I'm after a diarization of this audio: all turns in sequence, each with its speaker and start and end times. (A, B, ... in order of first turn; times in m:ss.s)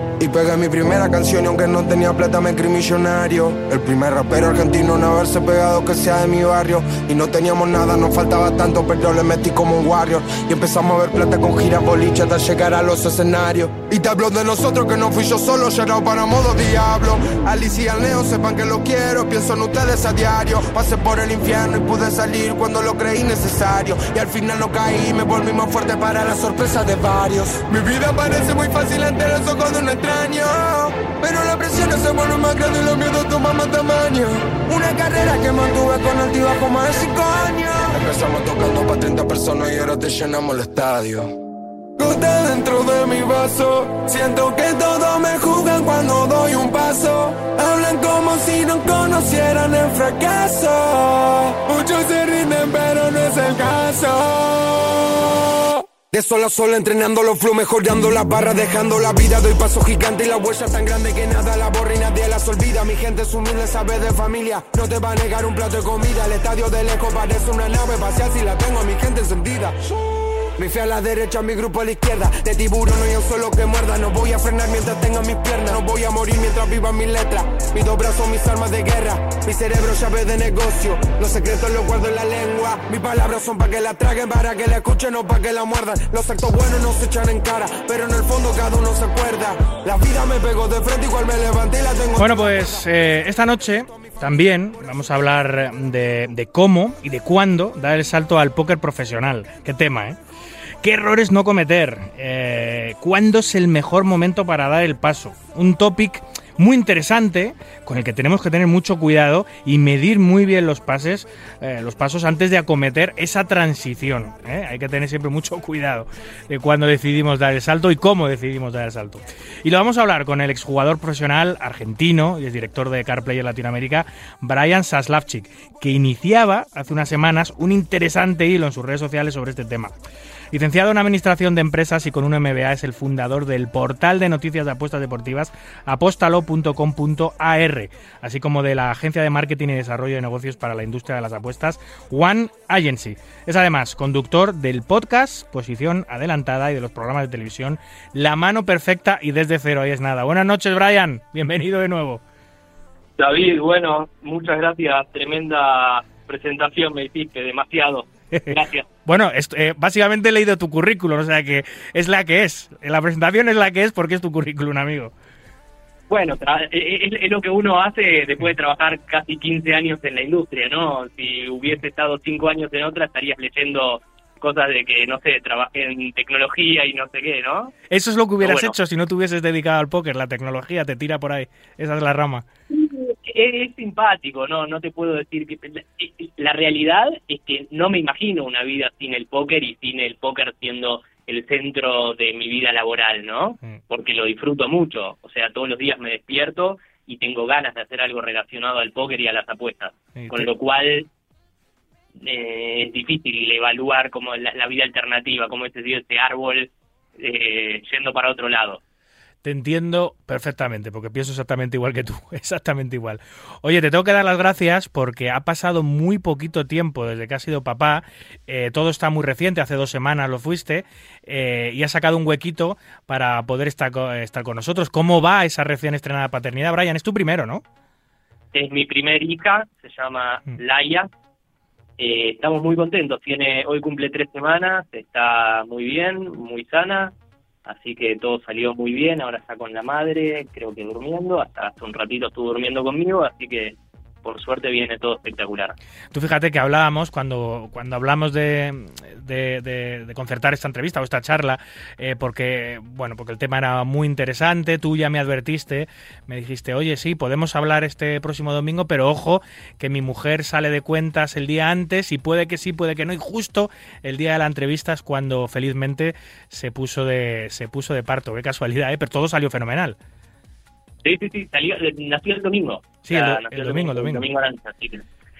0:00.2-0:41.3 A
0:42.0-1:09.8 A
1:10.6-1:32.3 A
1:32.2-1:40.2 B
1:40.8-2:10.0 B
2:10.5-2:32.2 B
2:33.2-2:38.9 C
2:38.3-2:45.1 B
2:46.1-2:57.7 C
2:57.9-3:02.4 B
2:58.4-2:58.7 C
3:02.7-3:21.1 C
3:20.2-3:20.5 B
3:22.2-3:28.8 C
3:29.4-3:47.6 B
3:48.5-3:51.1 C
3:52.0-3:57.1 C
3:57.6-4:05.8 C
4:06.1-4:30.0 B
4:31.0-4:35.0 C
4:33.0-4:34.2 B